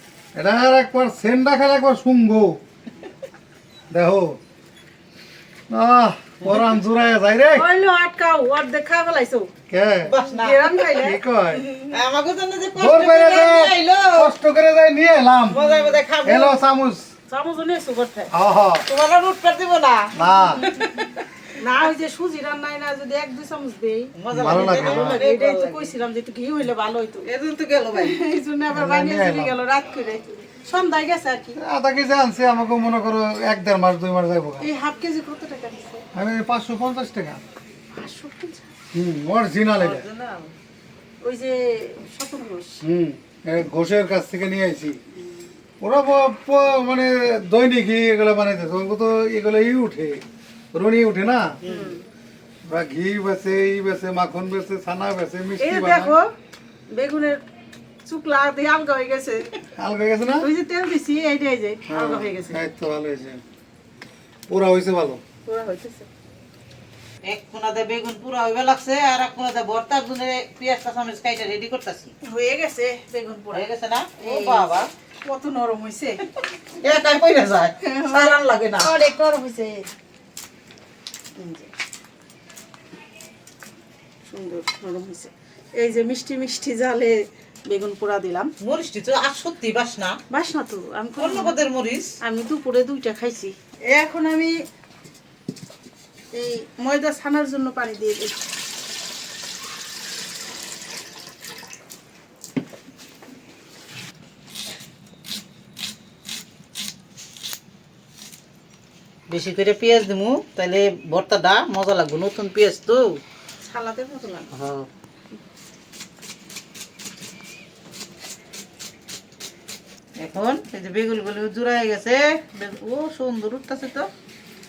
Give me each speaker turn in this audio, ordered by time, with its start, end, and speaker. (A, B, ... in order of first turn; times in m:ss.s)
0:00.4-0:02.6 A
0:03.9-0:04.4 A
0:05.7-0:07.7 A
0:06.4-0:06.7 B
0:07.5-0:09.5 C
0:09.7-0:10.1 A
0:10.0-0:11.0 B
0:10.2-0:11.9 C
0:11.0-0:11.7 A
0:11.9-0:14.3 B
0:12.8-0:15.6 A
0:15.5-0:16.6 B
0:15.6-0:16.0 C
0:16.2-0:17.1 A
0:17.3-0:18.3 C
0:18.3-0:18.9 A
0:18.9-0:21.2 B
0:20.1-0:20.6 A
0:21.6-0:27.3 C
0:24.2-0:25.9 B
0:24.3-0:25.2 A
0:27.2-0:28.2 B
0:28.0-0:31.6 C
0:28.7-0:29.6 A
0:31.6-0:34.7 A
0:34.6-0:36.0 C
0:36.1-0:37.4 A
0:37.9-0:38.7 C
0:38.9-0:40.0 A
0:39.7-0:40.5 B
0:41.2-0:42.8 C
0:42.8-0:45.0 A
0:45.2-0:45.5 C
0:45.8-0:51.6 A
0:51.6-0:52.0 C
0:51.7-0:51.9 B
0:52.7-0:56.2 A
0:55.6-0:56.3 C
0:56.9-0:57.4 C
0:58.0-0:59.6 C
0:59.8-1:00.5 A
1:00.4-1:02.6 C
1:01.9-1:03.4 A
1:04.5-1:05.2 A
1:05.5-1:06.1 C
1:07.2-1:12.1 B
1:12.2-1:13.7 C
1:13.5-1:14.9 B
1:14.2-1:14.7 C
1:15.2-1:16.2 C
1:16.8-1:18.9 B
1:17.8-1:19.9 C
1:21.4-1:21.7 C
1:24.3-1:28.5 C
1:28.6-1:30.2 B
1:30.3-1:31.6 C
1:31.2-1:32.1 B
1:32.2-1:34.6 C
1:36.3-1:38.4 C
1:49.3-1:53.2 B
1:53.6-1:54.5 C
1:54.5-1:54.9 B
2:00.2-2:04.1 B